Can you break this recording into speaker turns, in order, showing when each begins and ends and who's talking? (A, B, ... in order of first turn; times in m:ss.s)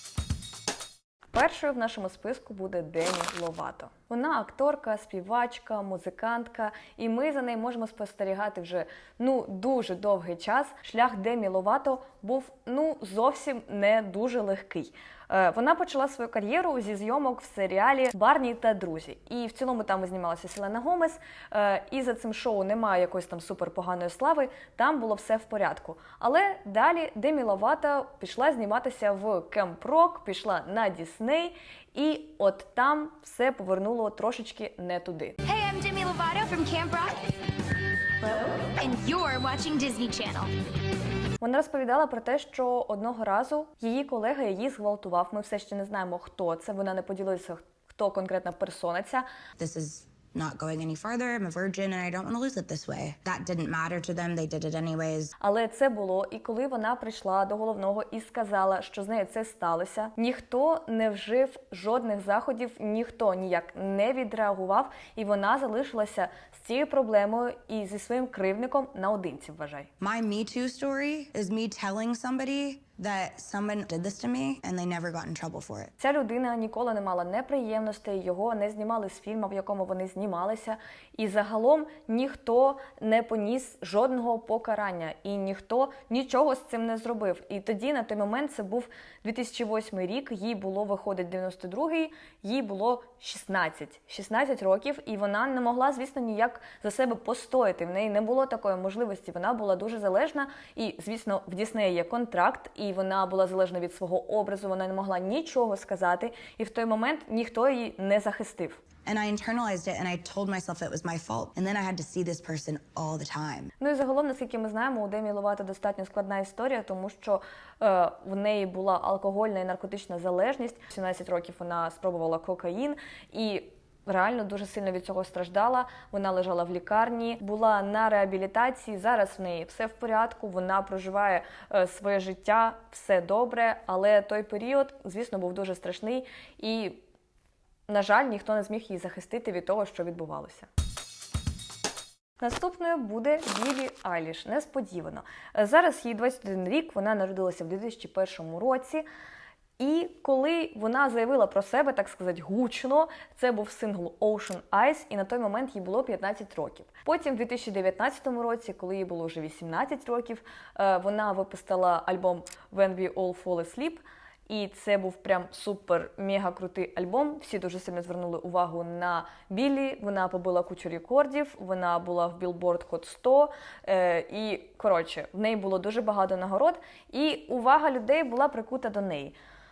0:01.3-0:35.4 A
0:35.4-0:37.2 B
0:38.2-0:40.5 B
0:41.4-0:49.3 A
0:49.6-0:55.3 C
0:55.4-1:09.9 A
1:10.0-1:15.9 C
1:16.0-1:48.8 A
1:49.1-1:53.7 C
1:53.8-2:17.0 A
2:17.9-2:20.7 A
2:22.4-2:29.0 A
2:29.8-2:59.4 A